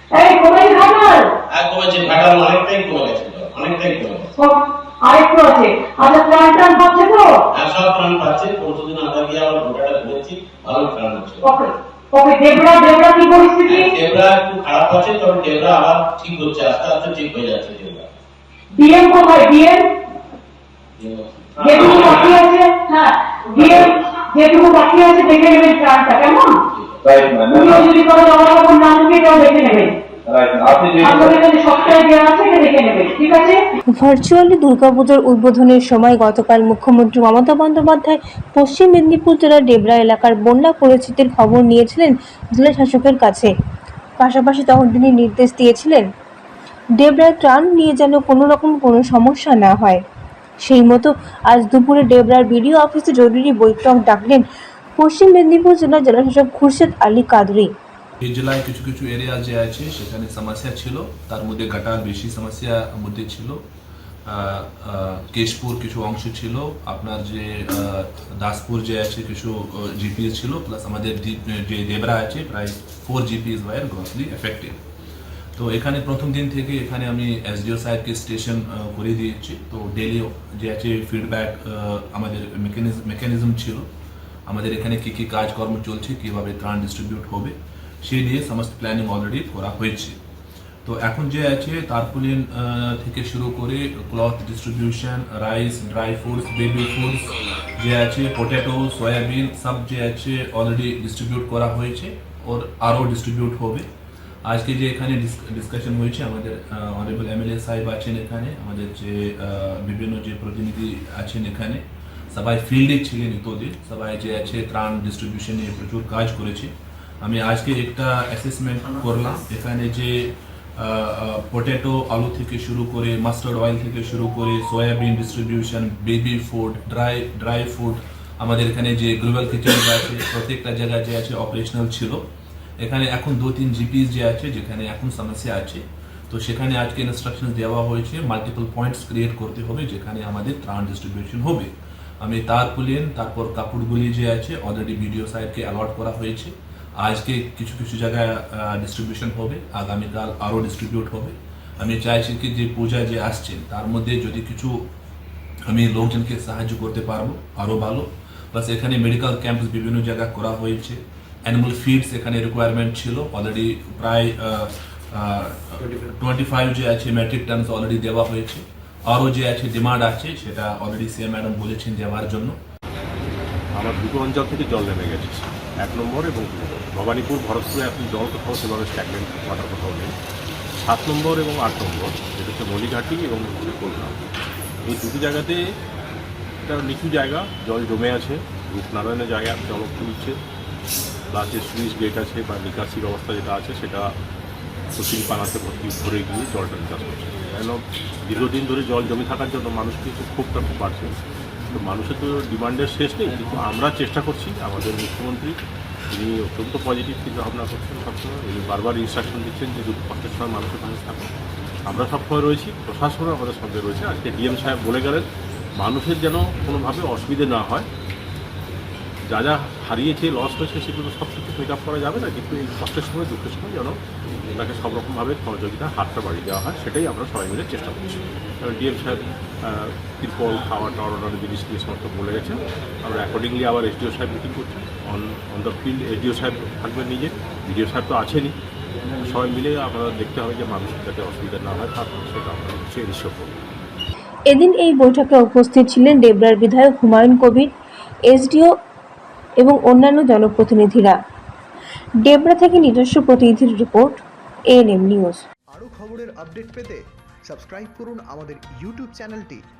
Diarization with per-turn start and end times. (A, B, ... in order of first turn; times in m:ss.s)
0:00.1-0:01.3 A
0:01.5-0:04.3 B
0:04.4-0:07.3 A
0:07.5-0:11.6 B
0:11.4-0:13.9 A
0:13.6-0:18.1 B
0:18.7-0:19.9 A
0:21.0-0:22.4 B
0:21.6-0:26.6 A
0:23.6-0:23.9 B
0:26.7-0:27.4 B
0:27.0-0:27.9 C
0:27.5-0:29.9 A
0:30.3-0:31.4 C
0:31.0-0:33.6 A
0:34.0-0:43.5 D
0:44.2-0:46.1 D
0:47.0-0:50.0 D
0:50.6-0:54.4 D
0:55.0-0:57.7 D
0:58.2-1:03.6 E
1:04.3-1:14.8 E
1:15.6-1:23.9 E
1:24.5-1:30.2 E
1:30.8-1:43.9 E
1:44.4-1:56.7 E
1:57.2-2:12.2 E
2:12.8-2:34.8 E
2:35.7-2:52.6 E
2:53.7-3:00.1 F
3:00.8-3:04.2 F
3:04.8-3:05.6 F
3:06.6-3:10.4 F
3:11.3-3:14.0 F
3:14.9-3:21.2 F
3:21.7-3:25.6 F
3:26.1-3:31.3 F
3:31.9-3:37.9 F
3:39.3-3:58.5 F
3:59.2-4:03.6 F
4:04.5-4:07.7 D
4:08.3-4:08.7 D
4:09.6-4:11.2 D
4:12.2-4:14.2 D
4:14.7-4:15.4 D
4:15.7-4:19.6 G